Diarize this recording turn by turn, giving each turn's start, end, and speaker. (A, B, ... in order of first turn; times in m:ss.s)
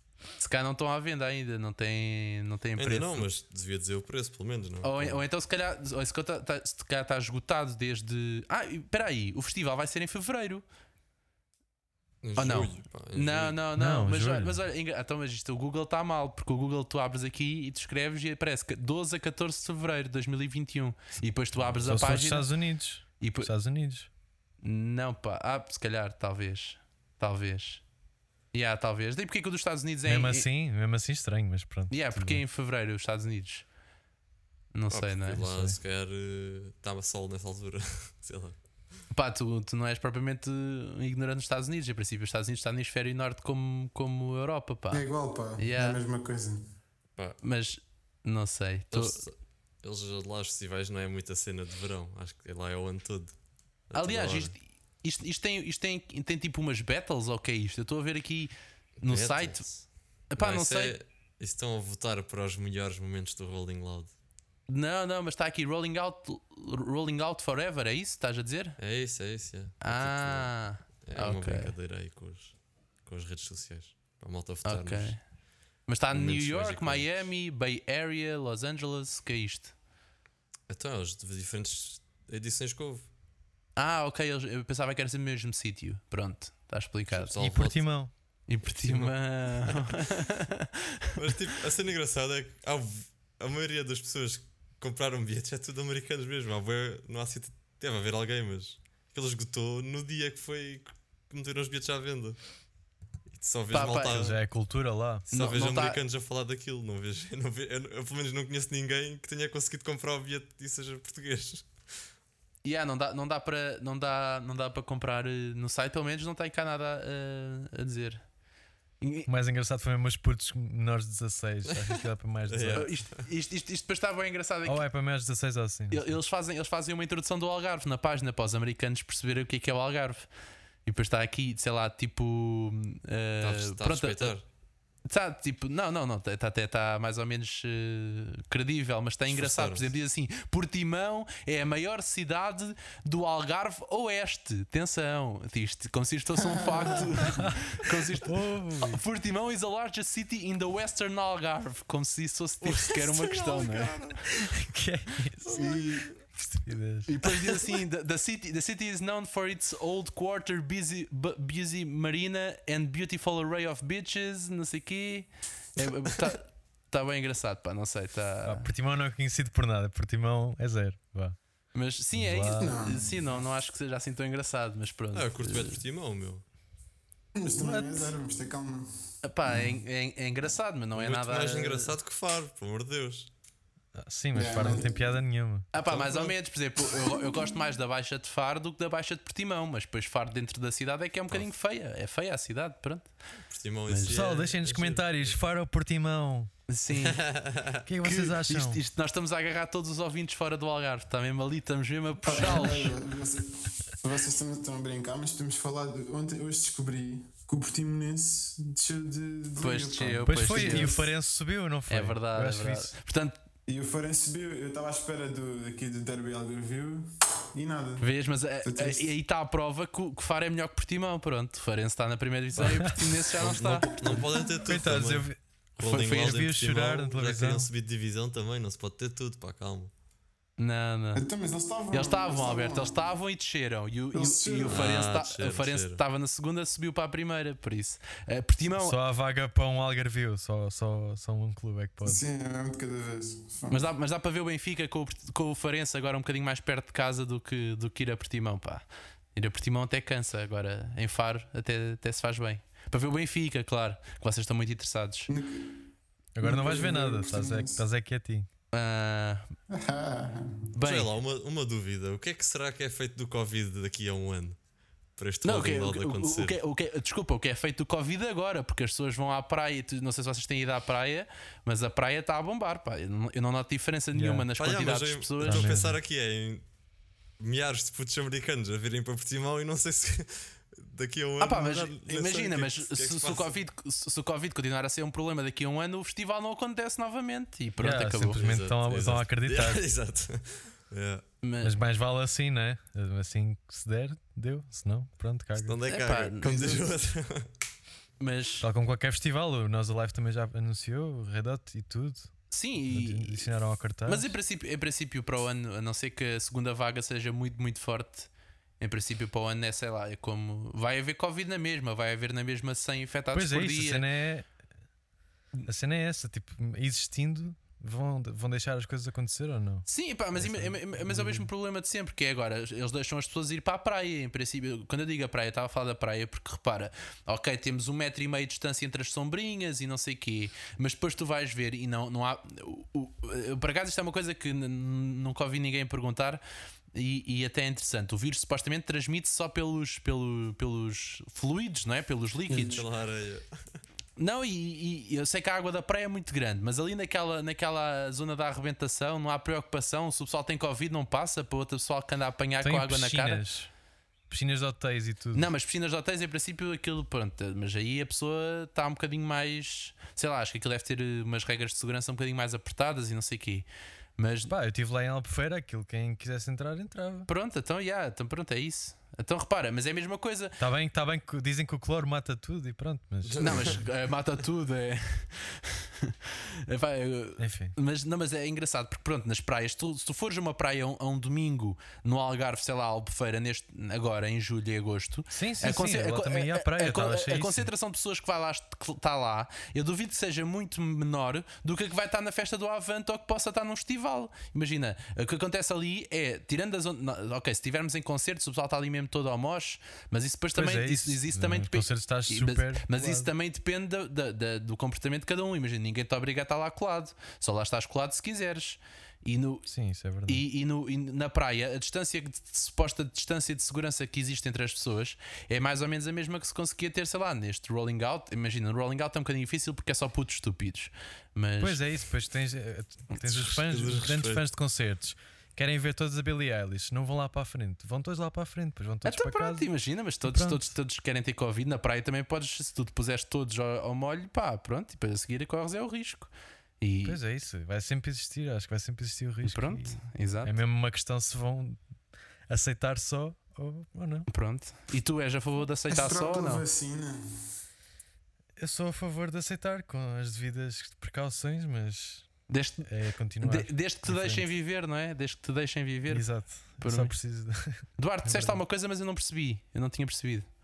0:00.4-0:03.3 A
0:02.8-0:05.2 B
0:04.8-0:10.6 A
0:12.2-0:13.6 B
0:12.4-0:22.5 A
0:13.8-0:14.6 C
0:21.6-0:22.0 B
0:21.9-0:24.1 C
0:23.2-0:23.5 A
0:24.6-0:27.8 A
0:28.5-0:30.5 A
0:30.0-0:32.4 C
0:31.9-0:33.7 A
0:34.7-0:35.4 A
0:34.9-0:38.6 B
0:35.4-0:35.8 C
0:39.1-0:46.0 A
0:44.9-0:46.6 D
0:47.4-0:49.2 A
0:48.9-0:53.4 B
0:53.9-0:54.5 B
0:53.9-0:59.6 A
0:59.0-1:04.1 B
1:00.3-1:01.0 A
1:04.7-1:08.8 A
1:08.8-1:15.2 B
1:09.8-1:11.7 A
1:14.6-1:15.2 A
1:15.9-1:19.7 A
1:16.1-1:17.3 B
1:20.7-1:23.1 B
1:23.8-1:27.4 A
1:27.2-1:27.9 B
1:27.4-1:28.1 C
1:28.5-1:30.7 A
1:28.6-1:30.0 B
1:31.2-1:42.4 B
1:43.3-1:44.4 B
1:43.7-1:44.3 A
1:44.1-1:45.2 C
1:45.3-1:51.7 B
1:45.3-1:46.0 A
1:52.6-1:58.2 A
1:59.0-1:59.3 A
1:59.3-2:02.9 C
2:01.7-2:03.2 B
2:02.8-2:04.8 A
2:04.6-2:06.2 C
2:05.9-2:10.3 A
2:10.9-2:14.4 A
2:13.4-2:14.4 B
2:15.1-2:34.0 A
2:19.3-2:19.9 B
2:26.6-2:27.0 D
2:27.3-2:27.6 C
2:28.1-2:29.0 C
2:32.6-2:34.4 B
2:34.6-2:37.1 C
2:35.4-2:36.2 B
2:35.6-2:36.0 A
2:37.1-2:48.7 A
2:48.4-2:51.4 C
2:51.7-2:55.8 A
2:52.1-2:52.8 C
2:52.6-2:53.4 D
2:55.1-2:56.4 B
2:57.4-2:58.9 D
2:57.6-2:58.1 C
2:59.2-3:02.0 A
2:59.5-2:59.7 D
3:01.0-3:03.3 B
3:04.0-3:05.7 C
3:04.3-3:05.1 D
3:05.7-3:13.1 A
3:13.5-3:15.4 B
3:13.9-3:14.2 A
3:14.1-3:16.5 C
3:16.7-3:17.2 A
3:16.9-3:17.8 B
3:17.8-3:18.8 C
3:18.0-3:22.9 A
3:22.2-3:31.1 D
3:29.6-3:31.0 A
3:30.3-3:32.9 C
3:31.9-3:33.4 A
3:33.7-3:38.1 D
3:38.0-3:43.9 A
3:38.6-3:39.1 D
3:43.3-3:49.9 B
3:44.6-3:45.4 C
3:45.8-3:46.4 A
3:45.9-3:47.7 C
3:50.6-3:51.2 A
3:51.2-3:53.0 D
3:51.9-3:59.0 A
3:54.1-3:54.8 D
3:54.7-3:56.0 B
3:58.8-4:02.2 C
4:02.0-4:03.9 D
4:03.7-4:08.8 A
4:09.4-4:15.3 A
4:15.3-4:15.7 D
4:16.4-4:18.5 C
4:16.4-4:17.8 D
4:18.7-4:19.4 A
4:19.7-4:20.6 D
4:20.7-4:21.1 A
4:20.8-4:24.6 B
4:25.2-4:26.6 B
4:25.4-4:35.7 A
4:34.1-4:34.5 C
4:34.6-4:36.6 B
4:35.4-4:36.0 C
4:37.4-4:43.6 B
4:41.4-4:48.4 A
4:47.8-4:49.8 C
4:48.4-4:51.2 B
4:51.4-4:51.7 A
4:51.6-4:55.8 C
4:55.6-4:57.5 B
4:55.9-4:56.8 A
4:58.2-4:58.7 A
4:58.6-5:02.4 C
5:02.5-5:03.5 A
5:02.9-5:04.3 C
5:04.0-5:08.3 A
5:08.8-5:14.0 A
5:13.3-5:14.5 C
5:15.7-5:21.5 C
5:19.9-5:36.4 A
5:36.9-5:42.8 A
5:42.6-5:43.5 B
5:44.2-5:53.4 A
5:52.6-5:53.7 C
5:54.3-5:55.5 C
5:55.3-6:03.7 A
6:04.2-6:04.5 A
6:04.5-6:07.3 C
6:07.3-6:10.6 A
6:10.6-6:13.8 C
6:13.2-6:13.8 B
6:13.4-6:49.7 A
6:17.4-6:17.8 C
6:25.3-6:27.7 C
6:40.5-6:43.3 C
6:49.7-6:50.4 C
6:50.3-7:01.8 A
7:01.6-7:09.7 C
7:03.2-7:04.4 B
7:09.0-7:17.2 A
7:10.2-7:10.7 C
7:17.0-7:21.8 C
7:19.4-7:20.5 A
7:22.5-7:24.3 C
7:24.3-7:26.6 A
7:25.9-7:27.2 D
7:28.6-7:32.3 C
7:32.5-7:32.9 A
7:32.8-7:34.5 C
7:33.4-7:36.3 A
7:36.1-7:38.6 C
7:36.8-7:37.1 A
7:38.0-7:40.5 A